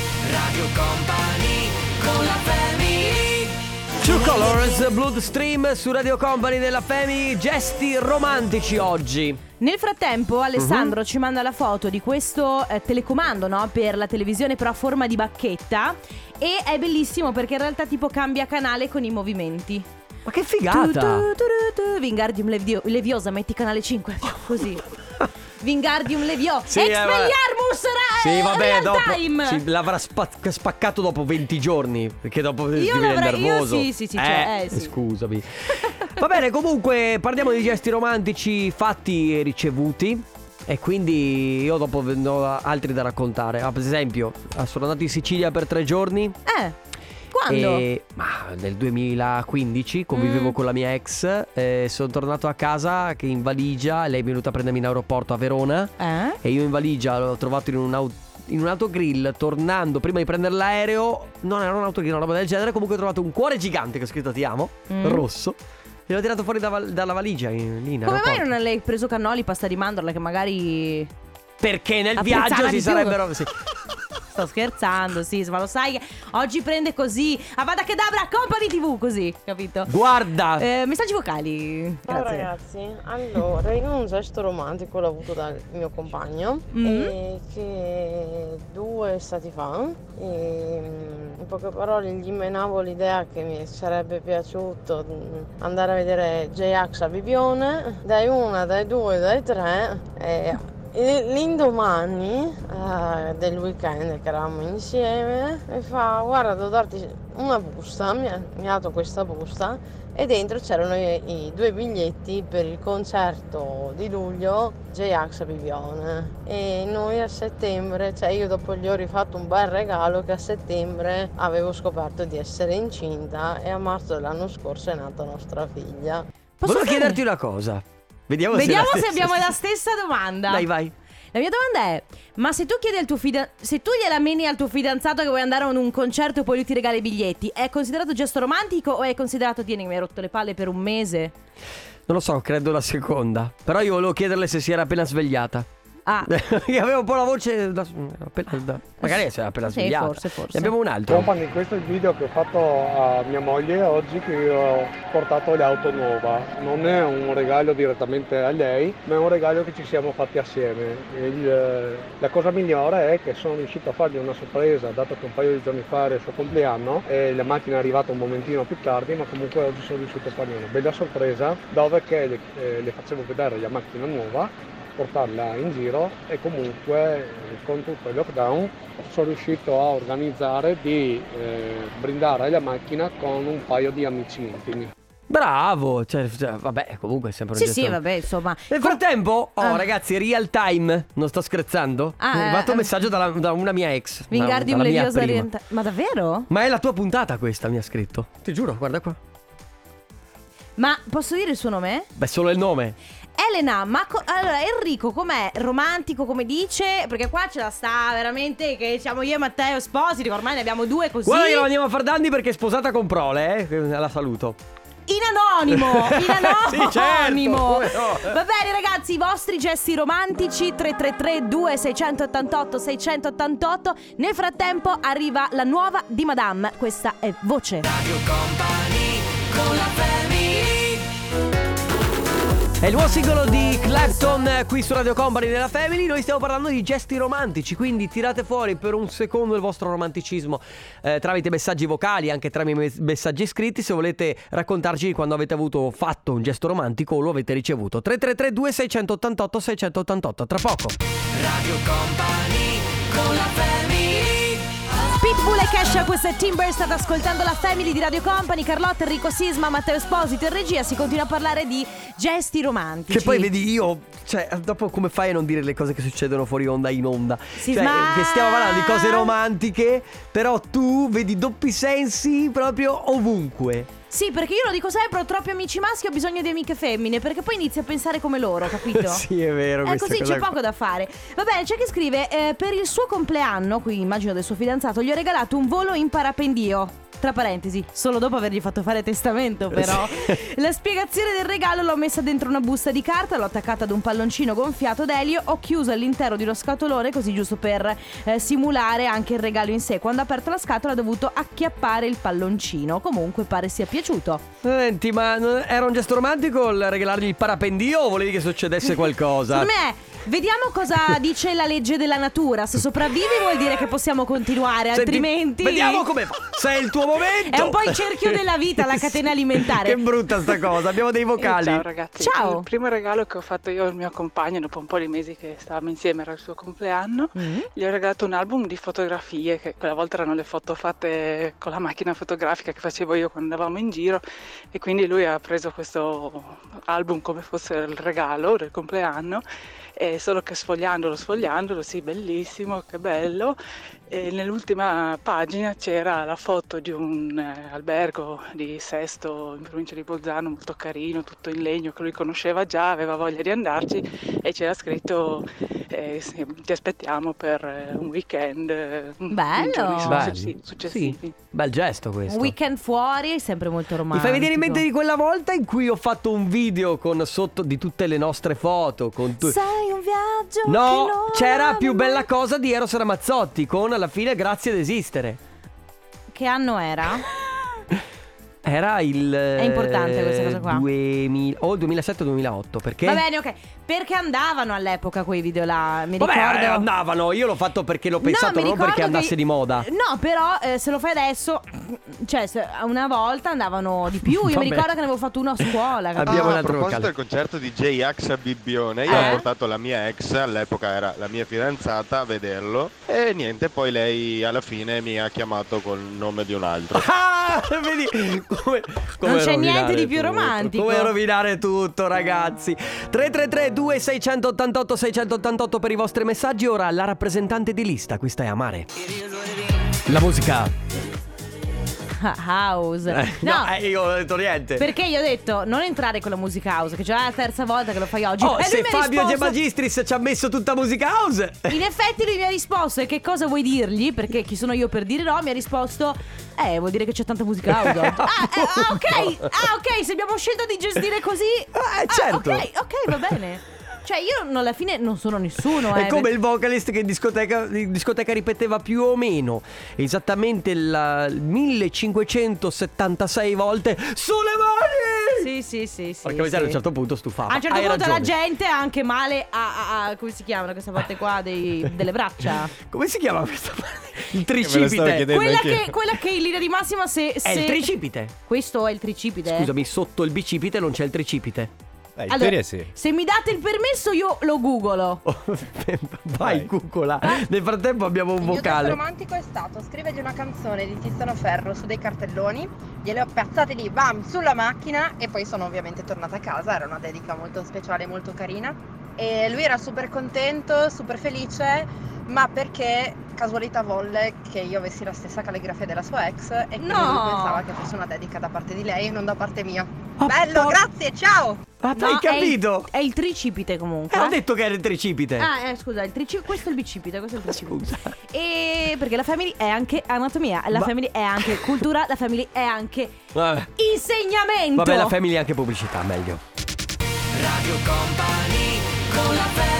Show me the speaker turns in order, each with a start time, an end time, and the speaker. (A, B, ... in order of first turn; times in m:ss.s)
0:00.3-0:02.0 A
0:04.0-0:09.4 A
0:09.6-0:19.9 B
0:10.6-0:10.9 A
0:20.2-0:21.3 A
0:20.7-0:24.9 B
0:25.6-0:29.6 B
0:26.7-0:27.4 A
0:28.2-0:46.4 A
0:32.7-0:34.9 B
0:35.8-0:36.1 B
0:46.4-0:46.8 B
0:47.3-0:47.8 B
0:47.5-1:05.6 A
0:50.1-0:50.6 B
0:56.0-0:56.4 B
1:04.9-1:05.2 B
1:06.1-1:08.4 A
1:08.0-1:11.1 B
1:11.6-1:13.5 A
1:12.2-1:13.2 B
1:14.3-1:19.9 B
1:19.9-1:20.6 A
1:20.6-1:22.5 B
1:22.1-2:06.2 C
1:26.7-1:27.2 B
2:06.6-2:07.2 B
2:06.6-2:09.4 A
2:08.5-2:10.7 B
2:10.5-2:10.9 A
2:11.3-2:21.3 B
2:22.1-2:25.7 A
2:26.3-2:31.3 A
2:29.0-2:30.7 B
2:31.1-3:04.9 D
3:05.3-3:08.0 A
3:07.6-3:09.0 B
3:08.7-3:15.5 A
3:09.6-3:09.8 B
3:12.2-3:12.9 B
3:14.3-3:16.5 B
3:16.5-3:19.2 A
3:20.8-3:22.1 B
3:22.2-3:23.0 A
3:23.4-3:31.7 B
3:31.2-3:34.6 A
3:35.1-3:47.9 B
3:35.7-3:38.4 A
3:48.0-3:48.6 A
3:52.8-4:11.0 A
4:15.0-4:23.5 B
4:23.1-4:33.9 A
4:27.6-4:29.3 B
4:34.1-4:39.2 B
4:38.9-4:40.5 A
4:39.8-5:04.4 B
4:49.7-4:50.4 A
5:04.6-5:09.7 A
5:08.9-5:16.0 B
5:14.9-5:21.8 A
5:17.5-5:20.5 B
5:21.4-5:39.4 E
5:22.2-5:22.6 B
5:27.3-5:27.7 B
5:40.0-5:43.6 E
5:44.1-6:01.3 E
5:59.3-6:00.2 B
6:00.0-6:02.5 A
6:02.3-6:04.8 B
6:04.1-6:09.6 A
6:09.4-6:12.3 B
6:10.6-6:15.4 A
6:16.3-6:17.3 B
6:18.6-6:23.2 A
6:19.6-6:20.8 B
6:23.0-6:26.9 B
6:26.2-6:29.9 A
6:28.2-6:36.6 B
6:34.3-6:34.9 A
6:36.2-6:37.1 A
6:36.3-6:47.0 F
6:39.1-6:39.4 A
6:39.1-6:39.4 B
6:46.9-6:58.9 A
6:49.2-6:51.1 B
7:00.0-7:00.7 A
7:02.2-7:03.7 B
7:03.1-7:04.8 A
7:04.8-7:09.6 B
7:08.4-7:11.8 A
7:11.7-7:26.3 B
7:17.7-7:19.5 A
7:21.7-7:22.6 A
7:25.9-7:35.5 A
7:35.4-7:36.8 B
7:36.2-7:38.3 A
7:37.5-7:42.7 B
7:42.8-7:45.4 A
7:44.6-7:46.0 G
7:45.2-7:49.7 B
7:47.4-7:48.3 A
7:49.4-7:51.7 A
7:52.2-7:52.9 G
7:52.3-7:55.2 B
7:55.2-7:59.0 A
7:56.4-7:56.7 G
7:58.4-8:21.6 H
8:16.8-8:17.6 B
8:20.2-8:20.8 A
8:21.8-8:22.9 A
8:21.9-8:24.4 B
8:24.1-8:25.5 A
8:25.4-8:33.1 B
8:27.5-8:28.1 A
8:31.4-8:31.7 A
8:33.3-8:33.7 A
8:33.8-8:35.2 B
8:34.8-8:36.4 A
8:37.5-8:39.0 A